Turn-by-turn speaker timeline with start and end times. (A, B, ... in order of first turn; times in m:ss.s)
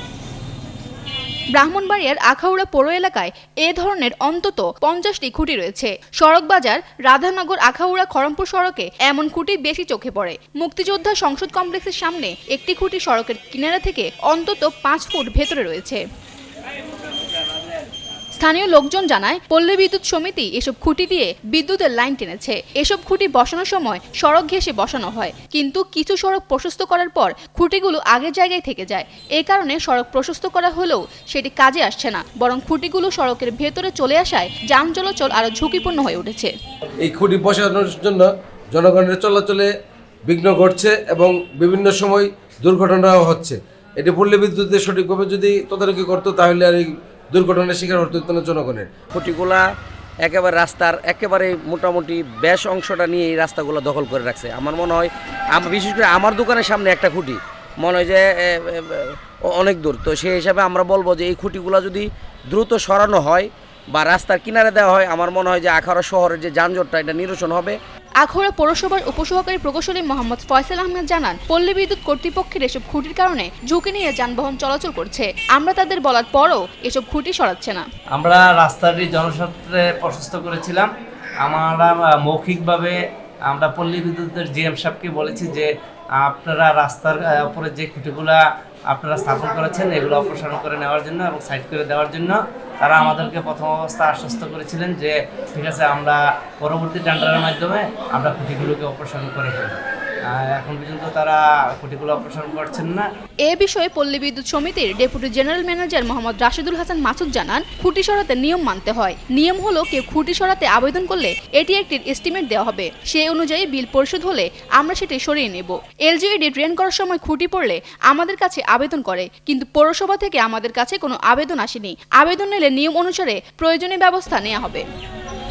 0:01.5-0:16.0 A
0:18.3-0:36.5 A
0:37.0-0:39.7 B
0:40.3-0:49.0 B
0:49.1-0:49.6 C
0:50.2-1:07.8 C
1:08.2-1:17.8 A
1:18.1-1:20.9 D
1:21.4-1:23.0 D
1:23.5-1:39.8 D
1:40.3-1:43.0 D
1:43.5-2:04.8 A